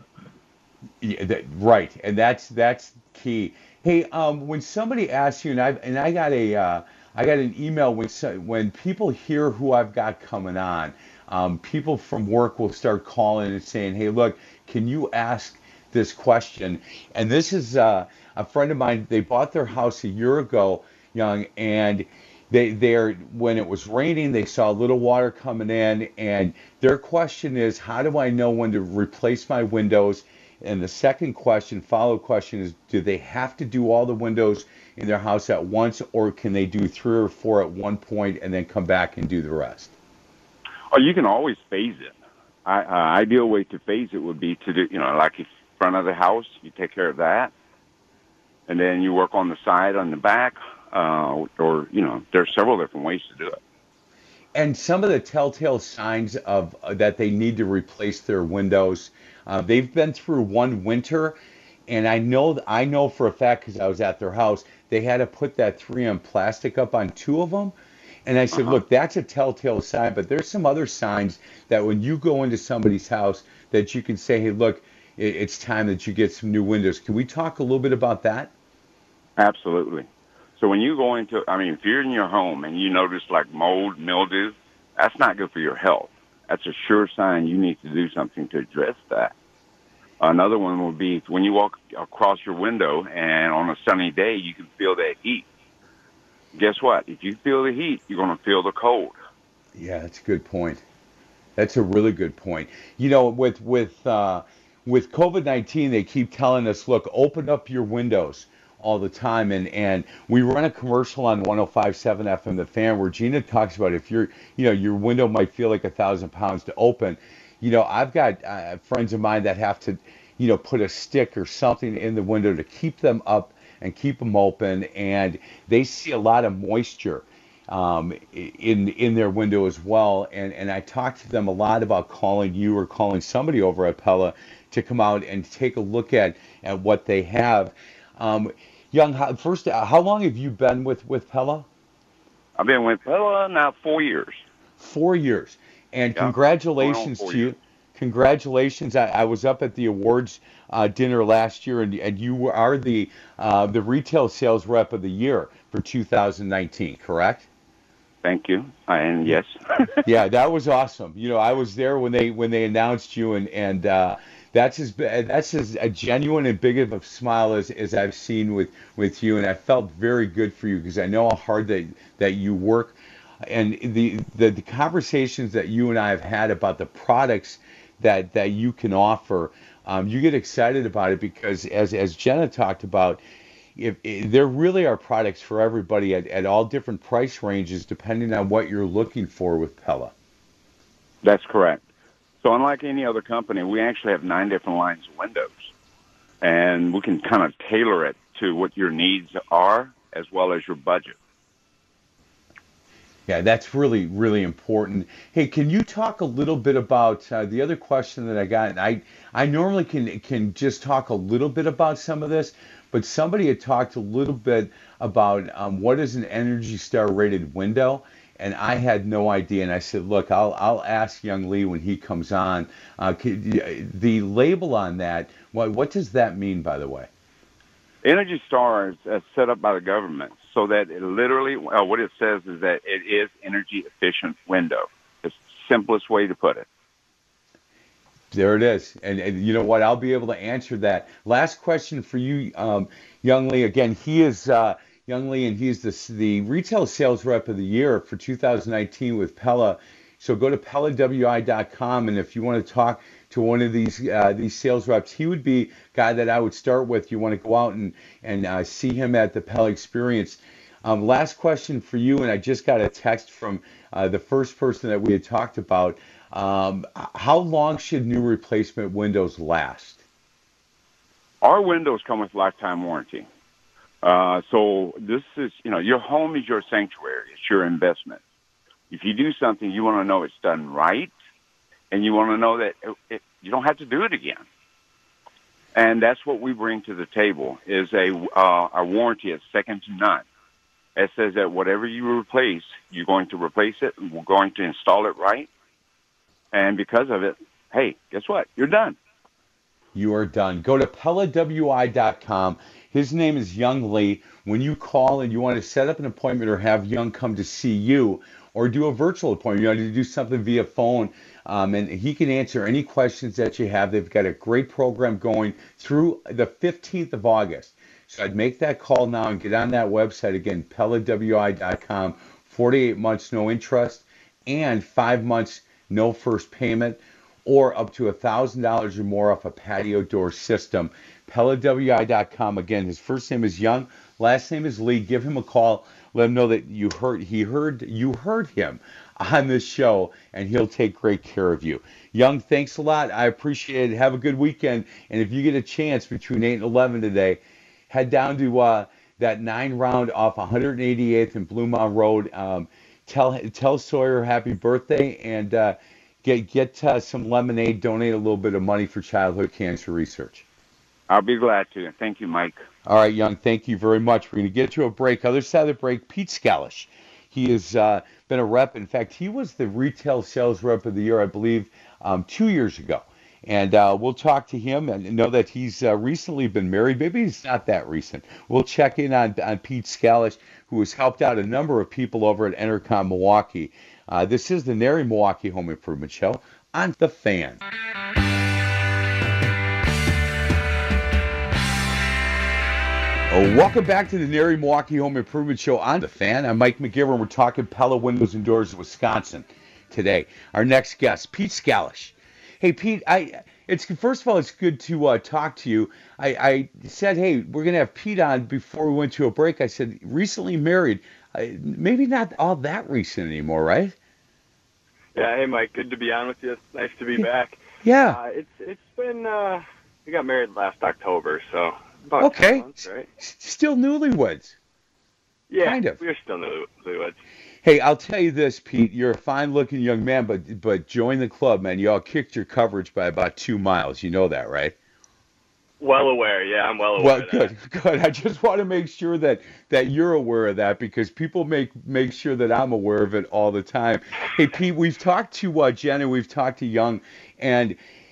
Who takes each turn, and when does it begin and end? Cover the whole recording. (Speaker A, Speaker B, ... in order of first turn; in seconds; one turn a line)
Speaker A: 1.0-40.0
Speaker B: 40.9-47.5
Speaker B: 48.7-53.6
Speaker A: 54.5-78.5
Speaker B: 79.4-89.3
Speaker B: 90.2-95.5
Speaker B: 96.5-99.2
Speaker A: 99.8-100.8
Speaker A: 101.6-141.7
Speaker B: 142.6-144.4
Speaker A: 144.8-157.5
Speaker B: 146.2-147.5
Speaker B: 158.2-159.6
Speaker A: 160.0-183.2
Speaker A: 183.8-190.1
Speaker B: 191.2-191.8
Speaker B: 192.4-195.7
Speaker B: 196.4-201.2
Speaker A: 203.3-227.1
Speaker B: 228.0-236.7
Speaker A: 238.3-270.0
Speaker B: 271.4-273.3
Speaker B: 274.0-278.2
Speaker B: 278.9-281.1
Speaker B: 281.9-284.5
Speaker B: 285.7-290.2
Speaker B: 291.0-295.5
Speaker B: 296.5-299.0
Speaker A: 299.9-360.4
Speaker B: 361.1-362.6
Speaker A: 362.9-387.6
Speaker A: 393.3-414.0
Speaker C: 415.1-423.1
Speaker A: 417.8-418.2
Speaker A: 422.2-424.6
Speaker C: 425.5-427.2
Speaker A: 425.6-426.0
Speaker A: 427.6-434.8
Speaker C: 435.8-437.5
Speaker A: 437.0-447.8